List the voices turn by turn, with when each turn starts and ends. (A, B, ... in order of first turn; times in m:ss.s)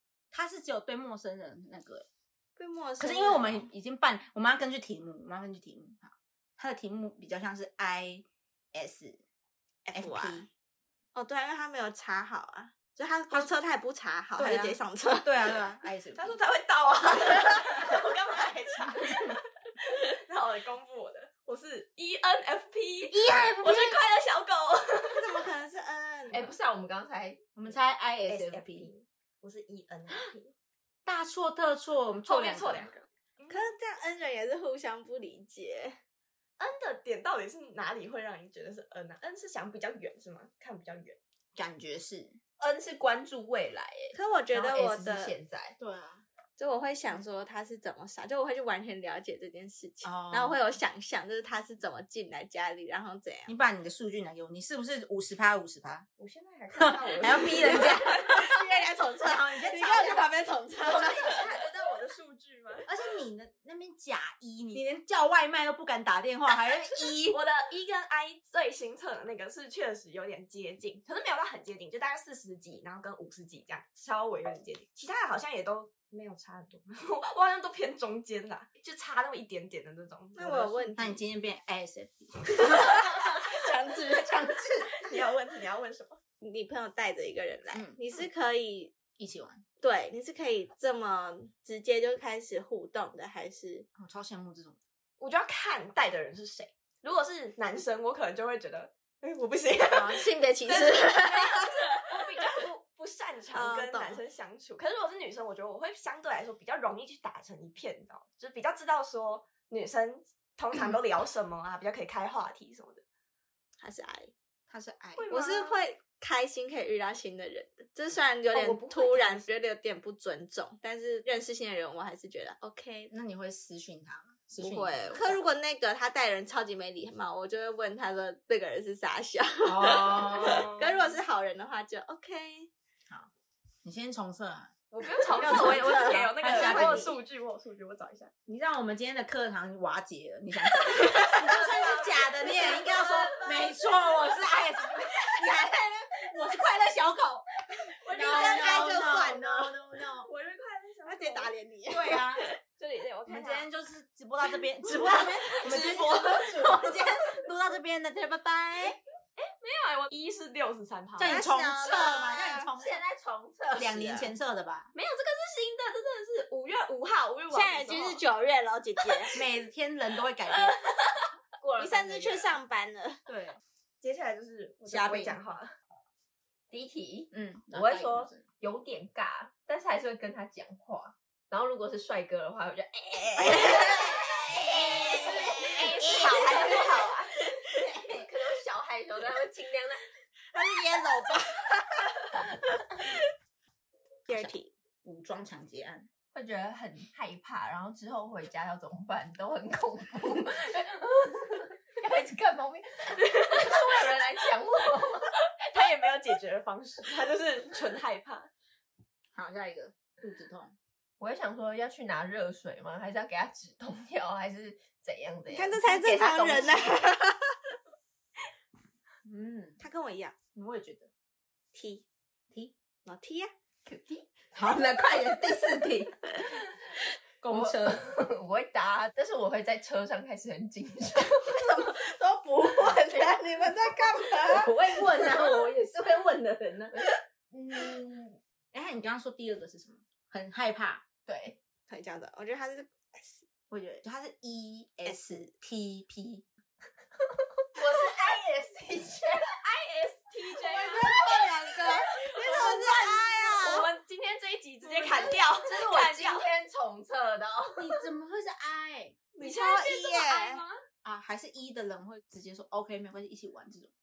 0:00.3-0:02.1 A
0:02.6-0:03.7 B
0:03.0-0:09.2 A
0:09.8-0:10.5 B
0:10.0-0:10.5 A
0:11.1-0:15.6 B
0:14.4-0:16.4 A
0:16.2-0:25.4 C
0:19.1-0:19.3 A
0:23.1-0:24.0 A
0:25.1-0:26.5 B
0:26.3-0:27.4 D
0:27.6-0:28.9 A
0:28.3-0:30.5 C
0:31.0-0:33.0 A
0:32.3-0:33.7 C
0:33.5-0:36.0 B
0:36.6-0:41.2 C
0:41.6-0:42.4 A
0:42.6-0:45.8 D
0:44.1-0:45.4 B
0:45.8-0:46.2 A
0:46.6-0:53.5 B
0:50.0-0:50.6 A
0:53.5-0:56.1 A
0:56.2-0:58.5 C
0:56.8-0:58.5 A
0:57.5-1:01.5 B
0:59.2-1:00.3 A
1:00.8-1:02.9 C
1:02.9-1:07.4 A
1:07.3-1:20.9 C
1:20.4-1:21.2 B
1:21.0-1:25.0 A
1:22.7-1:24.3 B
1:24.9-1:26.2 C
1:26.4-1:29.0 B
1:27.7-1:28.0 A
1:29.2-1:29.6 A
1:29.8-1:33.9 B
1:34.0-1:34.8 A
1:35.2-1:53.0 C
1:39.9-1:41.9 B
1:43.5-1:44.2 B
1:53.8-1:54.3 B
1:54.7-1:55.3 A
1:55.2-1:55.9 C
1:55.3-2:03.1 B
1:58.5-1:59.4 C
2:03.1-2:05.4 A
2:04.6-2:12.7 B
2:09.6-2:10.7 A
2:10.4-2:10.9 C
2:13.8-2:14.8 A
2:14.9-2:18.3 C
2:15.1-2:17.1 B
2:15.3-2:17.2 A
2:18.5-2:30.3 A
2:20.9-2:23.5 C
2:28.0-2:29.4 C
2:28.1-2:29.7 B
2:30.2-2:31.5 C
2:31.1-2:32.3 B
2:31.9-2:32.5 A
2:32.8-2:33.7 C
2:33.3-2:39.0 A
2:34.9-2:36.7 C
2:39.4-2:41.4 C
2:41.2-2:43.0 A
2:41.2-2:42.7 B
2:42.8-2:44.2 D
2:43.8-2:44.9 A
2:44.0-2:44.2 B
2:45.0-2:48.2 C
2:47.5-2:49.4 B
2:49.3-2:50.8 A
2:51.6-2:52.5 D
2:51.8-2:53.2 B
2:53.3-2:53.6 A
2:54.0-2:55.7 C
2:54.9-2:55.4 A
2:56.7-3:07.2 D
2:57.3-2:58.4 A
3:03.2-3:07.3 B
3:07.8-3:08.2 A
3:08.0-3:10.0 D
3:10.5-3:12.1 B
3:14.3-3:14.7 B
3:15.0-3:16.1 A
3:16.3-3:25.4 D
3:25.6-3:28.5 C
3:29.4-3:30.8 A
3:31.2-3:37.0 D
3:35.5-3:37.5 B
3:39.2-3:39.8 A
3:39.8-3:40.4 B
3:40.5-3:41.1 A
3:41.7-3:42.0 B
3:43.0-3:43.5 B
3:43.9-3:44.5 D
3:44.5-3:46.2 A
3:47.4-3:48.1 A
3:47.5-3:51.7 D
3:51.6-3:54.7 B
3:54.5-3:55.8 D
3:54.5-3:57.0 A
3:56.9-3:58.4 D
3:58.7-4:01.0 A
4:01.2-4:01.6 D
4:01.9-4:03.4 B
4:03.7-4:06.4 A
4:05.0-4:05.5 B
4:07.8-4:09.6 D
4:09.6-4:11.1 C
4:10.5-4:13.9 D
4:10.7-4:13.9 B
4:13.6-4:16.5 C
4:14.8-4:18.1 D
4:17.8-4:19.2 A
4:19.4-4:20.6 C
4:19.4-4:20.6 B
4:21.0-4:23.9 A